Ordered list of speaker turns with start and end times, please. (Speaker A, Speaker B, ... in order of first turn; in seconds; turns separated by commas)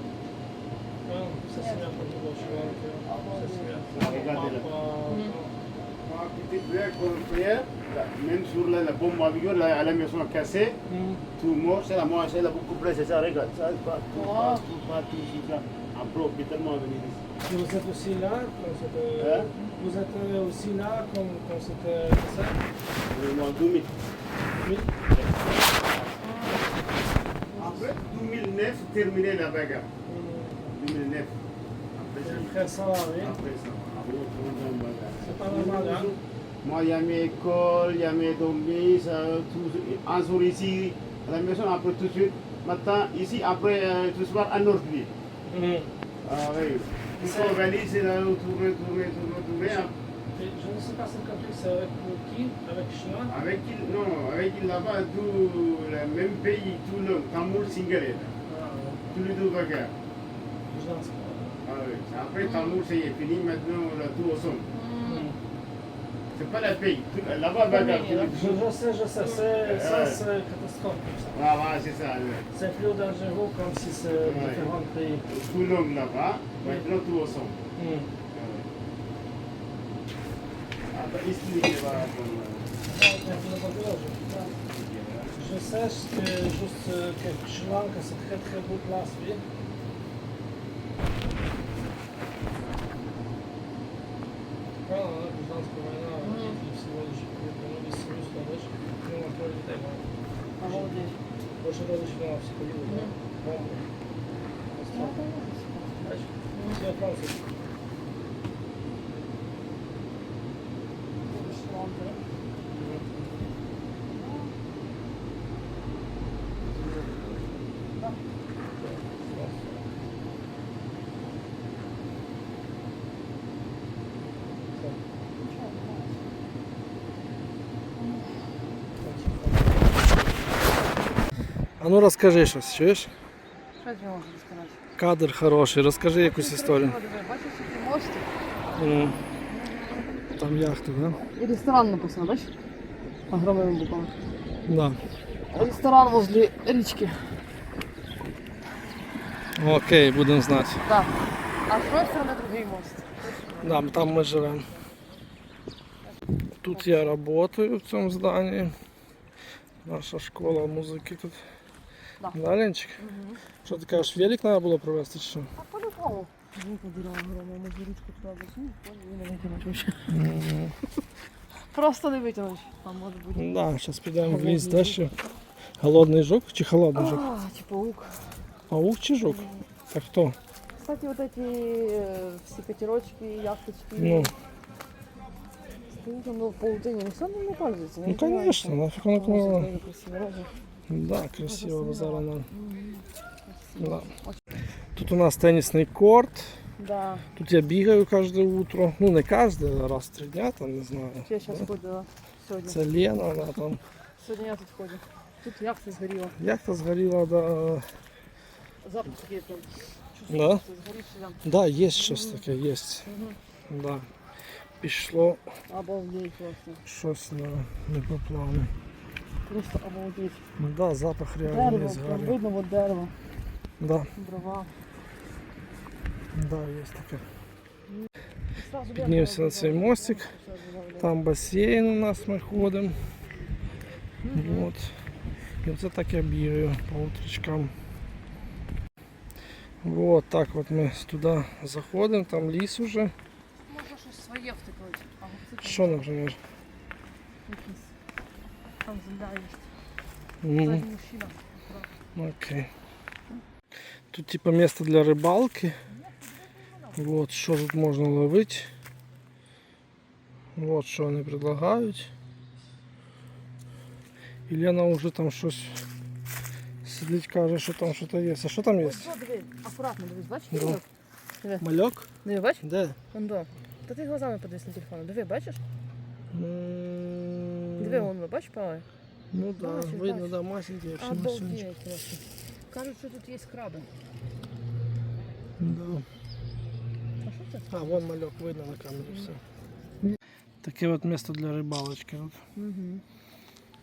Speaker A: 1.1-5.6, Speaker B: 1.6-1.9, Speaker C: 2.4-2.8, Speaker B: 3.0-4.3, Speaker C: 3.9-4.7, Speaker B: 5.1-5.3, Speaker C: 6.0-10.8, Speaker A: 10.9-11.2, Speaker C: 11.4-17.2, Speaker B: 14.1-14.7, Speaker A: 17.4-22.6, Speaker C: 19.2-19.5, Speaker C: 23.1-23.9, Speaker A: 24.6-24.9, Speaker C: 25.1-26.2, Speaker B: 26.2-26.7, Speaker A: 26.4-26.9, Speaker A: 27.5-27.9, Speaker C: 27.6-29.9, Speaker A: 30.1-30.8, Speaker C: 30.7-31.4, Speaker C: 32.0-32.6, Speaker A: 32.2-33.4, Speaker C: 33.1-45.1, Speaker A: 35.2-36.1, Speaker A: 45.5-45.9, Speaker C: 46.2-49.9, Speaker A: 47.2-47.6, Speaker A: 50.4-53.4, Speaker C: 53.3-58.4, Speaker A: 58.5-59.0, Speaker C: 59.1-59.9, Speaker A: 60.7-61.6, Speaker C: 61.6-64.7, Speaker B: 62.4-62.8, Speaker B: 64.7-65.3, Speaker A: 65.0-65.4, Speaker C: 66.3-68.6, Speaker B: 67.7-68.3, Speaker A: 68.3-71.4, Speaker C: 69.3-70.2, Speaker C: 71.3-72.5, Speaker A: 72.5-75.2, Speaker C: 74.1-74.7, Speaker C: 75.3-77.6, Speaker A: 76.6-76.9, Speaker A: 77.8-78.1, Speaker C: 78.3-78.7, Speaker C: 80.9-82.7, Speaker A: 82.9-84.4, Speaker C: 84.5-85.4, Speaker A: 85.3-89.4, Speaker A: 94.8-100.0, Speaker B: 96.2-96.6, Speaker B: 100.6-101.2, Speaker A: 100.6-103.9, Speaker B: 102.9-103.1, Speaker A: 104.7-105.2, Speaker B: 104.9-106.8, Speaker A: 106.0-107.4, Speaker B: 111.2-112.2, Speaker A: 112.7-113.2, Speaker B: 114.1-114.5, Speaker A: 118.8-119.7, Speaker B: 125.4-126.2, Speaker B: 128.0-128.3, Speaker A: 129.0-130.0, Speaker A: 131.8-133.1, Speaker B: 133.8-134.8, Speaker A: 135.0-137.0, Speaker B: 136.2-138.3, Speaker A: 138.8-139.2, Speaker B: 139.5-140.1, Speaker A: 140.3-141.2, Speaker B: 141.4-142.5, Speaker B: 143.3-144.1, Speaker A: 144.7-145.0, Speaker B: 145.5-147.2, Speaker A: 149.6-150.8, Speaker B: 150.8-151.1, Speaker B: 151.7-153.6, Speaker A: 153.6-154.7, Speaker A: 156.6-158.7, Speaker B: 156.7-157.1, Speaker A: 159.8-161.4, Speaker A: 162.3-163.0, Speaker B: 163.0-163.4, Speaker A: 163.6-165.5, Speaker B: 165.6-170.2, Speaker A: 170.1-170.8, Speaker B: 171.7-173.6, Speaker A: 173.4-175.1, Speaker B: 174.2-175.1, Speaker A: 175.8-177.2, Speaker B: 176.9-178.2, Speaker A: 178.7-180.4, Speaker B: 179.3-179.7, Speaker B: 180.8-184.3, Speaker A: 184.0-184.3, Speaker B: 185.9-190.5, Speaker A: 188.1-189.7, Speaker A: 190.9-192.5, Speaker B: 191.4-194.4, Speaker A: 193.8-194.1, Speaker A: 194.9-196.6, Speaker B: 196.8-197.3, Speaker A: 197.4-201.7, Speaker B: 201.3-202.8, Speaker A: 202.7-203.8, Speaker B: 204.2-206.4, Speaker A: 206.4-207.8, Speaker B: 208.8-211.4, Speaker A: 210.3-210.6, Speaker A: 211.4-213.1, Speaker B: 212.0-212.4, Speaker B: 213.1-213.4, Speaker A: 213.7-214.1, Speaker A: 214.8-215.4, Speaker B: 215.7-216.8, Speaker A: 216.8-218.7, Speaker B: 219.5-220.4, Speaker A: 220.6-222.4, Speaker B: 221.4-223.1, Speaker A: 223.8-224.1, Speaker B: 224.2-224.7, Speaker A: 226.3-227.2, Speaker B: 227.9-231.1, Speaker A: 229.0-230.3, Speaker A: 231.0-233.0, Speaker B: 234.2-234.7, Speaker A: 234.3-234.9, Speaker A: 235.6-237.7, Speaker A: 239.8-243.1, Speaker B: 243.7-246.0, Speaker A: 245.6-246.4, Speaker B: 247.5-247.9, Speaker B: 248.8-249.7, Speaker A: 250.4-250.9, Speaker B: 250.6-251.9, Speaker A: 252.2-252.7, Speaker A: 254.1-255.8, Speaker B: 255.9-257.0, Speaker A: 257.0-258.7, Speaker A: 260.6-262.1, Speaker A: 264.5-265.8, Speaker A: 266.8-269.1, Speaker B: 268.8-270.9, Speaker A: 270.5-270.8, Speaker A: 271.6-272.1, Speaker B: 272.2-275.6, Speaker A: 272.6-273.0, Speaker A: 276.3-278.1, Speaker B: 277.8-278.9, Speaker A: 279.3-281.6, Speaker B: 279.6-280.4, Speaker B: 281.0-283.9, Speaker A: 285.6-286.1, Speaker B: 287.2-287.9, Speaker A: 287.7-289.4, Speaker A: 290.6-292.4, Speaker B: 292.6-293.0